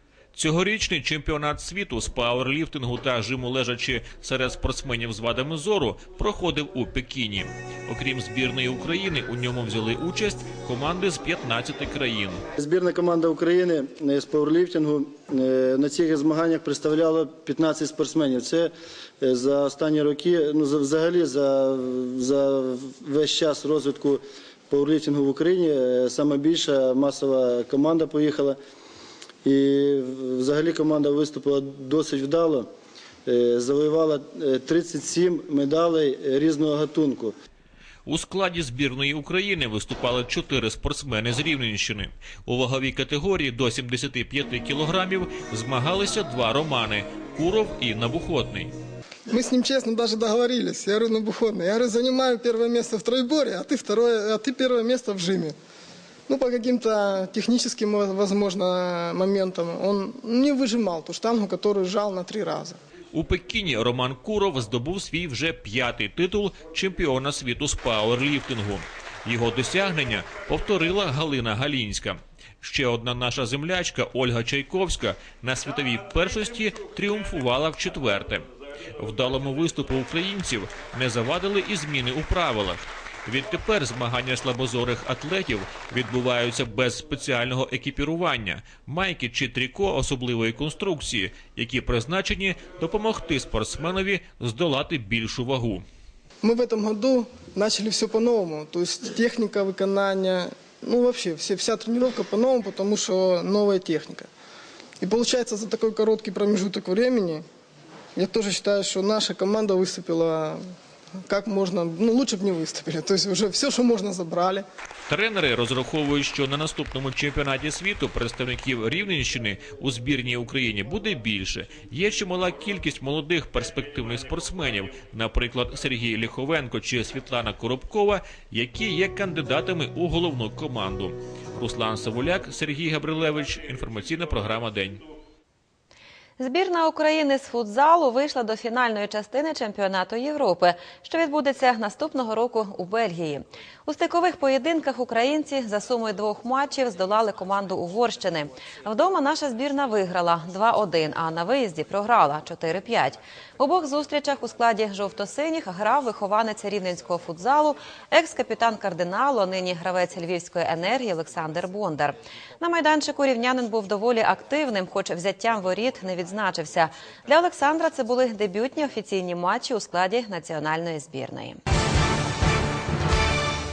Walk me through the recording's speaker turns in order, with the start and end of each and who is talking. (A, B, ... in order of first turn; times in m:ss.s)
0:00.3-0:12.4 A
0:12.6-0:18.7 B
0:19.3-0:28.6 B
0:29.4-0:32.7 B
0:33.3-0:37.3 B
0:38.1-0:48.7 A
0:49.3-0:55.6 C
0:56.3-1:02.8 C
1:03.1-1:18.4 A
1:19.0-1:35.8 A
1:36.4-1:44.3 C
1:45.0-1:47.4 C
1:48.2-1:50.6 C
1:51.3-1:54.6 C
1:55.1-2:15.0 A
2:16.4-2:51.6 D